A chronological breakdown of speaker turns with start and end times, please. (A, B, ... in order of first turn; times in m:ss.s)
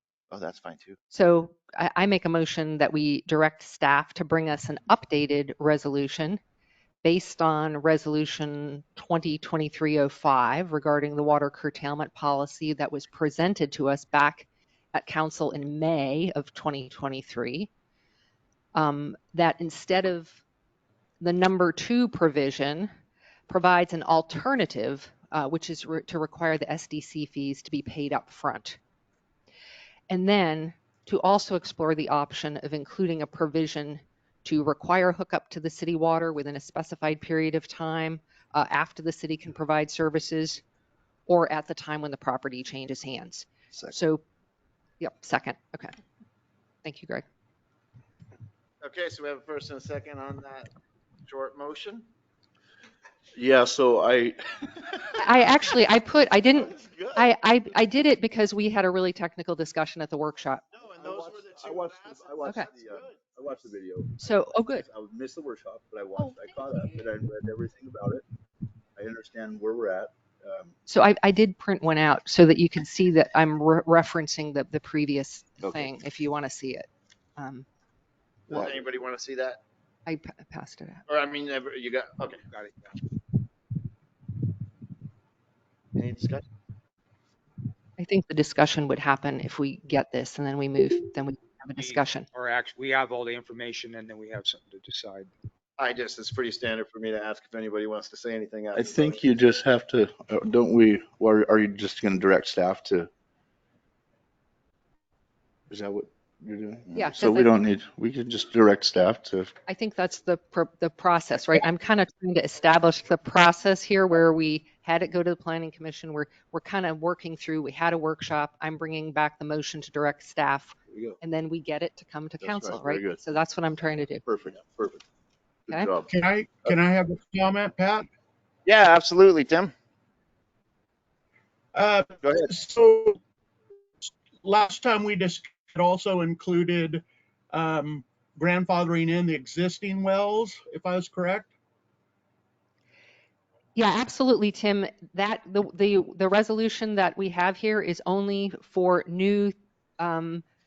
0:00.3-0:01.0 A
0:01.1-0:06.4 B
0:07.0-0:17.7 B
0:18.7-0:20.4 B
0:21.2-0:22.9 B
0:23.5-0:28.8 B
0:30.1-0:40.6 B
0:41.3-0:44.2 B
0:45.0-0:45.9 B
0:46.8-0:47.2 B
0:48.8-0:50.7 A
0:51.2-0:52.0 A
0:53.4-0:54.9 C
0:55.2-1:00.6 B
0:56.6-0:57.2 A
1:00.7-1:03.1 A
1:01.0-1:08.2 C
1:04.2-1:04.8 B
1:09.0-1:10.7 C
1:10.9-1:17.6 B
1:15.6-1:15.9 C
1:18.5-1:19.6 A
1:20.0-1:21.0 B
1:21.1-1:22.4 A
1:22.5-1:22.9 D
1:26.0-1:26.4 A
1:28.0-1:32.3 B
1:31.8-1:35.3 D
1:35.8-1:39.4 A
1:38.7-1:43.1 C
1:45.7-1:49.5 C
1:46.9-1:47.5 B
1:49.7-2:04.2 B
2:00.9-2:01.2 C
2:02.4-2:03.2 C
2:04.2-2:05.0 C
2:05.7-2:06.1 C
2:06.1-2:08.1 E
2:08.6-2:09.7 A
2:11.7-2:13.2 E
2:14.4-2:21.5 E
2:23.8-2:30.4 B